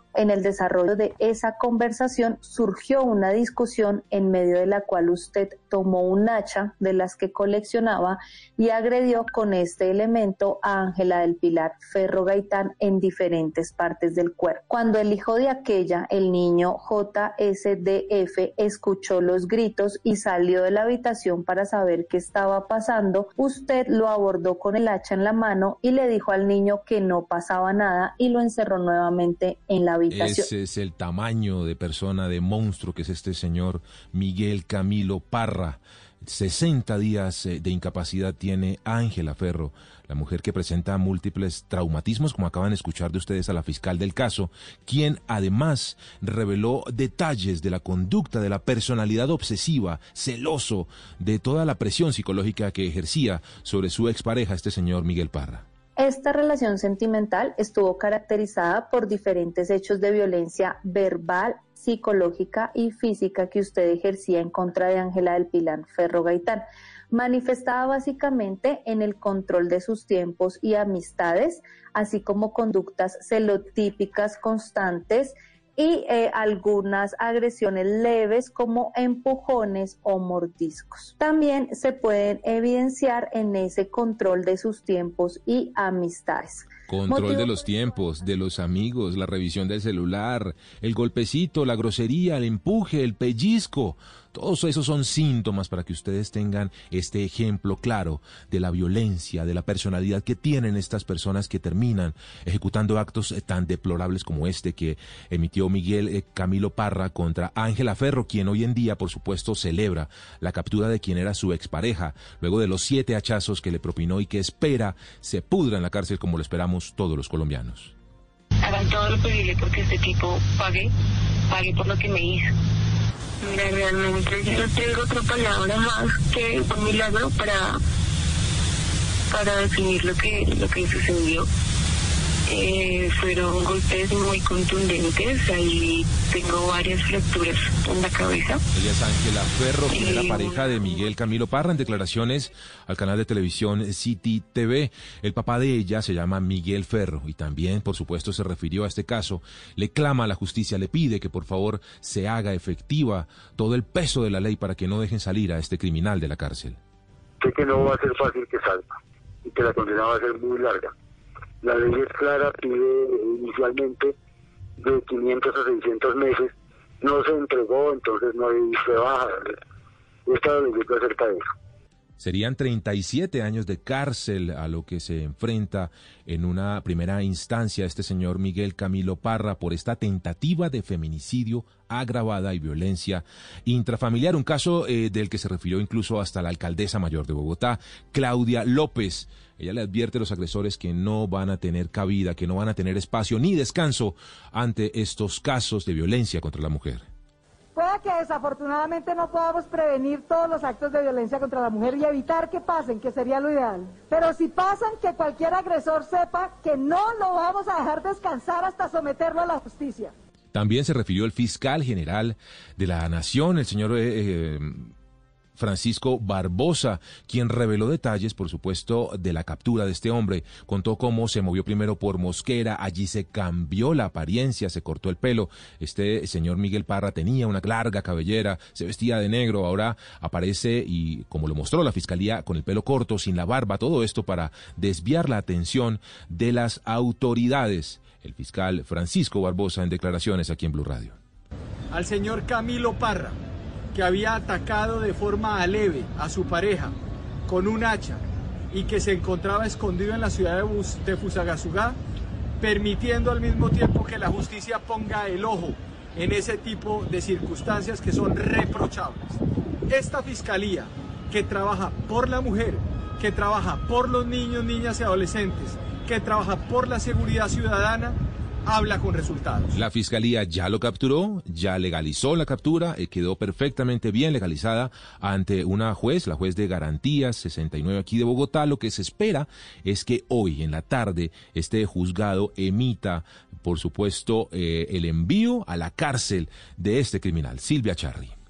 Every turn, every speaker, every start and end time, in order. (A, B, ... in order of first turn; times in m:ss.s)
0:00.2-0:30.5 A
0:30.1-0:55.6 B
0:56.0-1:27.5 A
1:26.9-1:57.9 B
1:58.6-2:00.9 C
2:01.5-2:02.5 C
2:03.4-2:07.8 C
2:09.3-2:11.5 C
2:12.5-2:18.6 C
2:18.7-2:36.8 B
2:19.9-2:20.7 C
2:37.4-2:38.9 D
2:39.4-2:40.9 D
2:41.6-2:44.2 D
2:44.8-2:49.6 D
2:50.3-2:51.4 D
2:52.2-3:17.0 B
3:17.8-3:30.1 E
3:30.5-3:34.9 B
3:35.6-4:01.2 B
4:01.9-4:03.4 F
4:03.9-4:06.9 F
4:07.5-4:08.2 F
4:08.7-4:12.0 F
4:12.6-4:29.7 F
4:29.7-4:48.3 B